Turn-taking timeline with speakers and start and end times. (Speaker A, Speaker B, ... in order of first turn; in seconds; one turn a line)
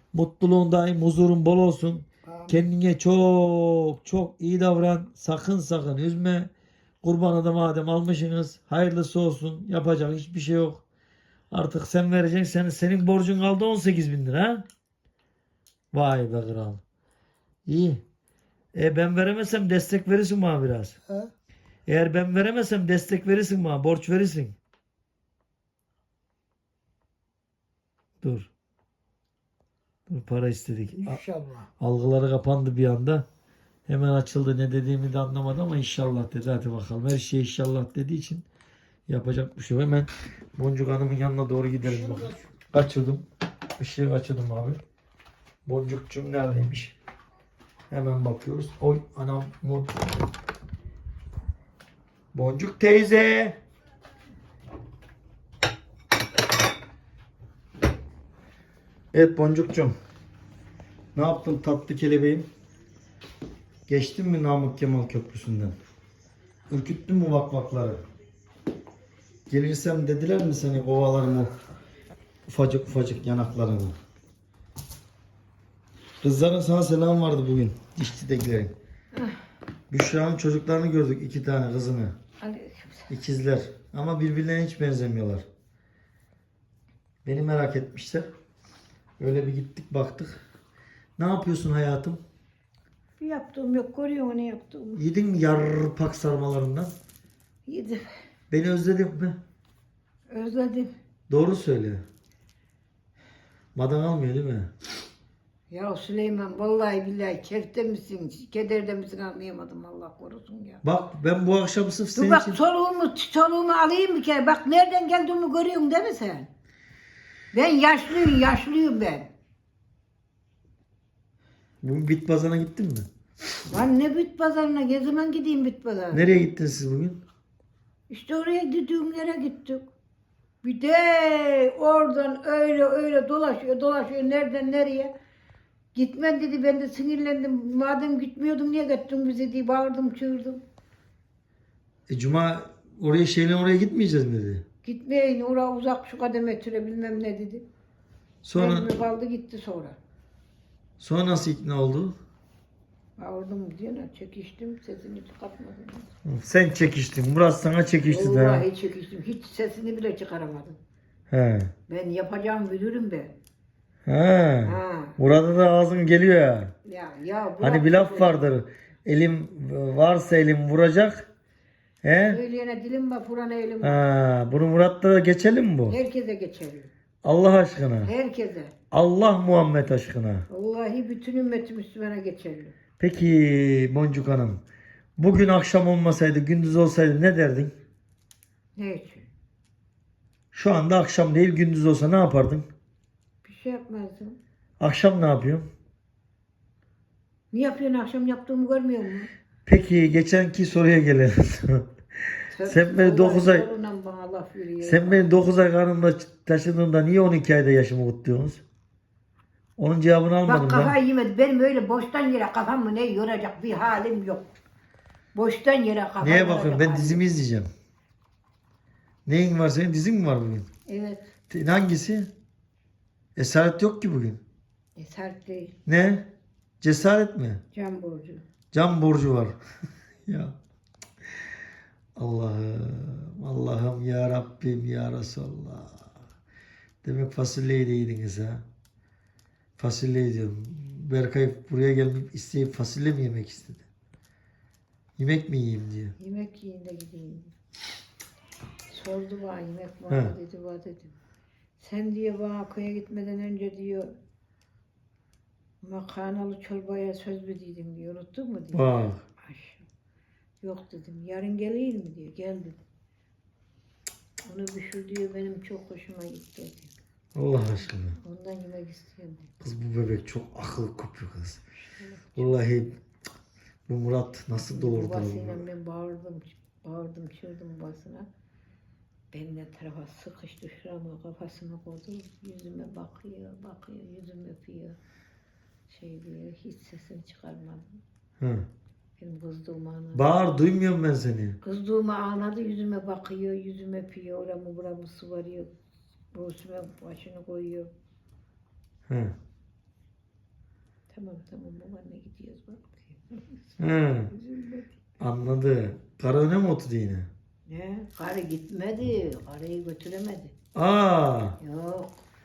Speaker A: 0.1-6.5
Speaker B: 2.2-2.6
Speaker A: 7.0-10.8
Speaker A: 11.5-14.7
Speaker A: 15.9-16.8
Speaker A: 17.7-18.0
Speaker A: 18.7-21.0
Speaker B: 21.1-21.3
Speaker A: 21.9-24.6
Speaker A: 28.2-28.5
Speaker A: 30.1-31.2
Speaker B: 30.9-31.7
Speaker A: 31.8-33.3
Speaker A: 33.9-38.5
Speaker A: 39.1-43.2
Speaker B: 41.8-42.5
Speaker A: 43.8-44.8
Speaker A: 45.6-47.0
Speaker A: 47.9-50.1
Speaker A: 52.3-53.6
Speaker A: 59.1-60.0
Speaker A: 61.1-62.5
Speaker A: 63.9-65.8
Speaker A: 66.7-68.0
Speaker A: 69.5-71.5
Speaker A: 72.5-74.0
Speaker A: 76.2-78.7
Speaker A: 79.9-82.2
Speaker C: 82.4-83.1
Speaker A: 83.1-85.5
Speaker A: 87.2-88.3
Speaker A: 89.2-90.4
Speaker A: 91.2-92.2
Speaker C: 93.2-95.0
Speaker A: 95.0-96.9
Speaker C: 97.7-98.0
Speaker A: 98.5-99.4
Speaker C: 100.3-100.9
Speaker A: 101.3-102.0
Speaker A: 103.8-104.7
Speaker C: 105.7-110.8
Speaker A: 110.8-112.6
Speaker C: 112.2-116.5
Speaker C: 117.5-119.3
Speaker A: 121.8-123.1
Speaker C: 123.7-126.3
Speaker A: 126.1-127.2
Speaker C: 128.1-129.8
Speaker C: 130.6-135.1
Speaker C: 135.9-140.6
Speaker A: 142.1-144.6
Speaker C: 144.8-147.7
Speaker A: 148.4-148.9
Speaker C: 148.6-150.0
Speaker A: 151.0-152.2
Speaker C: 153.2-156.1
Speaker A: 156.2-158.7
Speaker C: 158.1-160.8
Speaker A: 161.3-161.7
Speaker C: 161.9-163.3
Speaker A: 164.1-166.7
Speaker C: 164.6-165.2
Speaker C: 166.8-168.5
Speaker A: 167.6-171.3
Speaker A: 172.0-172.4
Speaker C: 172.2-174.0
Speaker A: 173.8-176.0
Speaker C: 175.9-176.9
Speaker A: 177.2-178.1
Speaker C: 178.0-178.7
Speaker A: 178.9-180.4
Speaker C: 180.5-182.8
Speaker A: 183.0-184.6
Speaker A: 185.2-187.7
Speaker C: 188.8-189.3
Speaker A: 190.5-192.7
Speaker C: 193.4-194.4
Speaker A: 194.8-195.7
Speaker C: 197.5-199.3
Speaker A: 199.7-201.9
Speaker C: 202.5-205.3
Speaker A: 202.6-203.7
Speaker A: 204.8-208.6
Speaker A: 209.8-210.9
Speaker C: 210.4-214.5
Speaker C: 215.3-217.2
Speaker A: 216.2-217.7
Speaker A: 219.3-220.7
Speaker C: 220.9-221.3
Speaker A: 221.5-222.3
Speaker A: 223.4-224.4
Speaker C: 225.0-225.8
Speaker A: 225.9-227.6
Speaker C: 227.7-228.4
Speaker A: 228.7-229.6
Speaker A: 230.3-230.6
Speaker A: 232.2-236.1
Speaker A: 237.0-238.7
Speaker A: 239.8-243.8
Speaker A: 245.2-246.2
Speaker C: 246.2-247.5
Speaker C: 248.9-251.2
Speaker C: 251.8-254.1
Speaker C: 255.8-258.9
Speaker A: 258.7-259.2
Speaker C: 259.4-259.9
Speaker C: 260.6-262.8
Speaker C: 264.4-266.9
Speaker A: 267.4-268.2
Speaker C: 268.2-269.5
Speaker A: 269.6-271.6
Speaker C: 271.9-272.6
Speaker A: 272.4-273.0
Speaker A: 273.9-275.6
Speaker C: 274.7-278.3
Speaker C: 279.3-285.0
Speaker C: 285.9-288.0
Speaker A: 288.4-288.7
Speaker C: 289.2-290.3
Speaker A: 290.1-291.6
Speaker C: 291.6-295.7
Speaker C: 296.3-297.9
Speaker A: 299.1-299.3
Speaker C: 301.1-304.9
Speaker A: 303.8-304.3
Speaker A: 305.2-307.3
Speaker C: 307.7-310.5
Speaker A: 310.8-311.6
Speaker C: 311.6-312.2